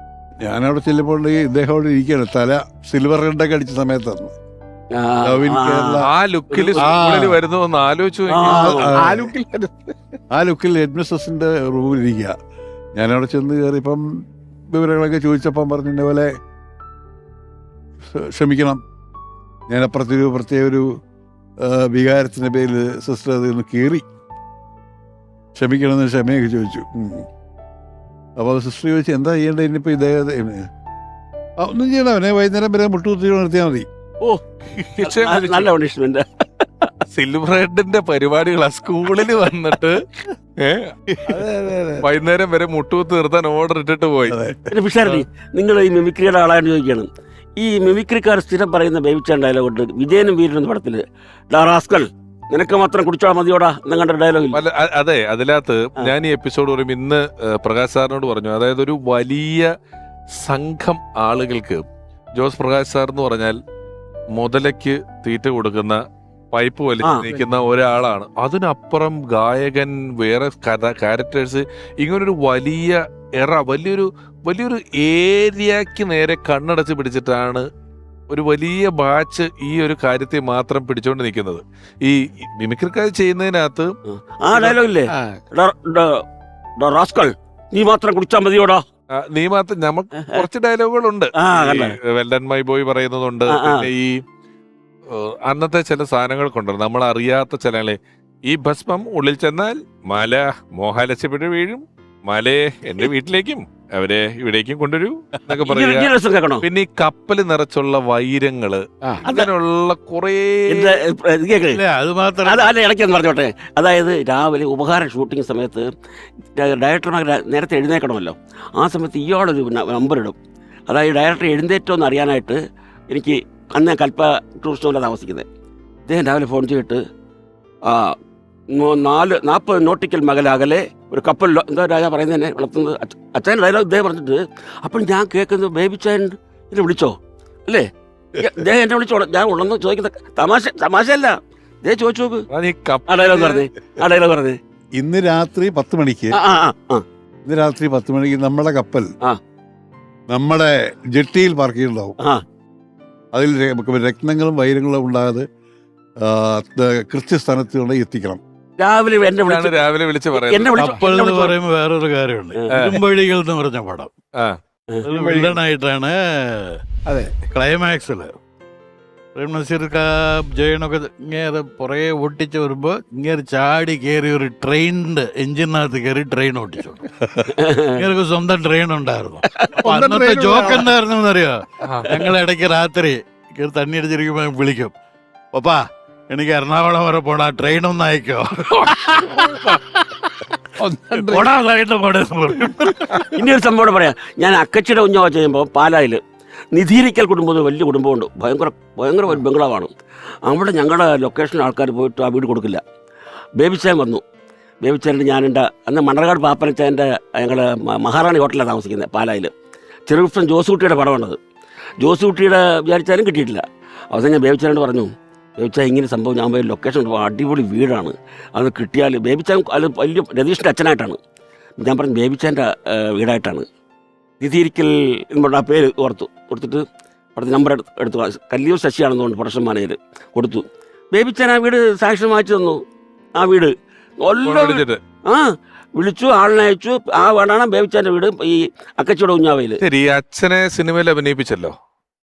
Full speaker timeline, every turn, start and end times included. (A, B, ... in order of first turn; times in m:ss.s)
0:00.4-0:04.3 A
0:04.9-0:06.9 B
0:05.2-0:06.1 A
0:06.0-0:08.9 C
0:06.7-0:07.4 A
0:08.3-0:09.0 B
0:08.4-0:09.3 A
0:09.0-0:10.0 D
0:10.3-0:12.3 A
0:13.0-0:14.0 A
0:14.7-0:16.3 A
0:18.0-0:18.8 A
0:19.7-0:20.9 A
0:21.6-0:24.0 A
0:25.6-0:27.2 A
0:28.4-0:30.6 A
0:31.6-0:33.9 A
0:34.7-0:35.7 C
0:35.0-0:36.9 B
0:37.1-0:40.0 C
0:40.6-0:41.4 C
0:41.1-0:42.0 A
0:42.0-0:44.4 C
0:44.3-0:44.7 A
0:44.7-0:54.6 B
0:54.5-0:59.7 C
1:00.4-1:01.8 C
1:02.4-1:03.6 C
1:04.3-1:17.6 C
1:07.0-1:07.3 B
1:18.3-1:23.9 C
1:24.1-1:26.2 B
1:25.1-1:25.4 D
1:26.8-1:28.8 B
1:29.2-1:34.2 C
1:30.2-1:30.5 B
1:31.4-1:32.0 B
1:33.5-1:33.9 B
1:35.1-1:50.9 C
1:45.6-1:46.6 B
1:50.7-1:51.8 B
1:51.7-1:52.7 E
1:52.4-1:55.9 B
1:56.6-2:00.4 B
2:00.9-2:05.4 B
2:06.1-2:07.0 B
2:07.9-2:08.1 B
2:08.7-2:17.1 B
2:17.7-2:22.4 B
2:22.5-2:23.6 C
2:23.1-2:24.6 B
2:25.0-2:26.3 A
2:26.3-2:27.0 B
2:27.4-2:29.1 A
2:30.3-2:32.2 A
2:33.3-2:35.4 A
2:36.2-2:38.4 A
2:38.8-2:39.8 B
2:39.4-2:40.8 C
2:40.4-2:41.5 B
2:40.8-2:44.1 E
2:42.5-2:42.8 B
2:42.7-2:43.0 C
2:45.0-2:46.8 E
2:45.2-2:45.4 D
2:47.0-2:47.4 D
2:47.5-2:48.3 E
2:49.3-2:57.1 E
2:57.5-2:58.0 B
2:58.0-3:04.9 E
2:59.8-3:00.9 A
3:05.5-3:09.8 E
3:10.8-3:11.5 D
3:11.1-3:13.2 E
3:13.3-3:16.2 B
3:16.7-3:19.9 B
3:20.4-3:22.8 B
3:23.6-3:24.2 B
3:24.8-3:29.5 B
3:30.1-3:31.4 B
3:32.0-3:41.2 B
3:41.8-3:43.6 B
3:44.4-3:46.8 B
3:47.4-3:52.8 B
3:53.4-3:59.8 B
3:54.4-3:55.0 C
3:59.8-4:01.7 C